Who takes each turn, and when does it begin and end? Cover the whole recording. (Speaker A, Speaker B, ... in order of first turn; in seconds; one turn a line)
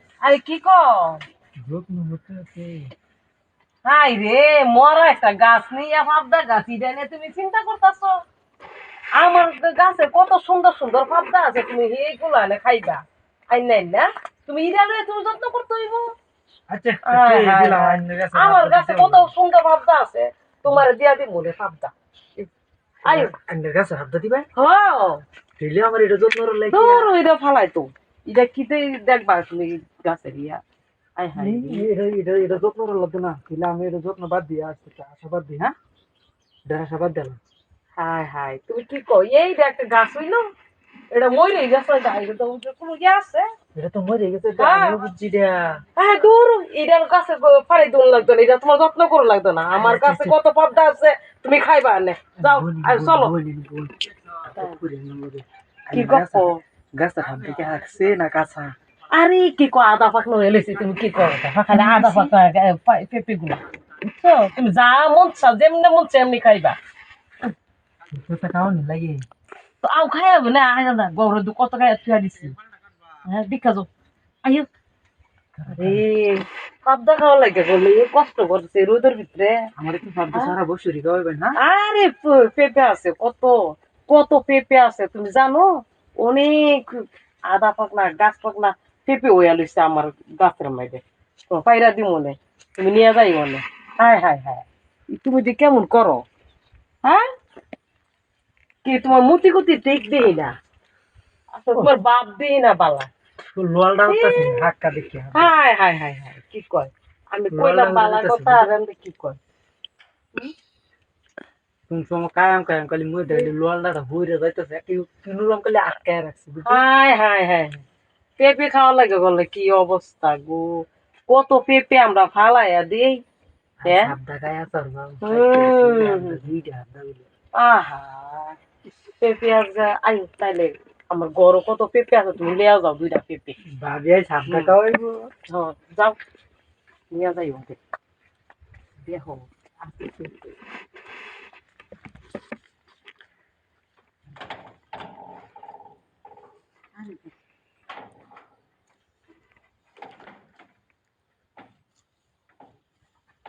Speaker A: 0.2-1.2
Speaker B: 1.6-2.9
Speaker A: 3.8-8.2
Speaker A: 9.1-16.1
Speaker B: 16.7-19.3
Speaker A: 17.0-22.5
Speaker A: 23.0-23.3
Speaker B: 23.1-24.5
Speaker A: 24.5-25.2
Speaker B: 25.6-27.1
Speaker A: 26.7-30.6
Speaker A: 31.2-31.9
Speaker B: 31.4-35.7
Speaker B: 36.7-37.4
Speaker A: 38.0-40.5
Speaker A: 41.1-43.5
Speaker B: 43.7-45.8
Speaker A: 44.6-45.0
Speaker A: 46.0-53.3
Speaker B: 49.7-50.4
Speaker B: 52.4-58.7
Speaker A: 55.9-56.6
Speaker A: 59.1-66.8
Speaker B: 61.7-62.3
Speaker B: 68.1-69.2
Speaker A: 69.8-72.6
Speaker A: 73.2-73.9
Speaker B: 75.6-76.0
Speaker A: 75.7-79.7
Speaker B: 79.8-81.6
Speaker A: 81.5-96.2
Speaker A: 98.8-100.5
Speaker A: 101.6-103.1
Speaker B: 103.5-105.5
Speaker A: 104.1-104.7
Speaker A: 105.3-109.4
Speaker B: 107.5-108.7
Speaker B: 111.9-116.8
Speaker A: 116.6-117.8
Speaker A: 118.4-123.2
Speaker B: 123.8-127.3
Speaker A: 123.8-124.1
Speaker A: 125.2-126.4
Speaker A: 127.5-128.6
Speaker A: 129.2-133.6
Speaker B: 133.6-135.3
Speaker A: 134.4-134.8
Speaker A: 135.5-136.2
Speaker A: 137.1-137.8
Speaker B: 139.1-139.3
Speaker A: 139.1-139.3
Speaker B: 139.8-140.3
Speaker A: 147.0-147.3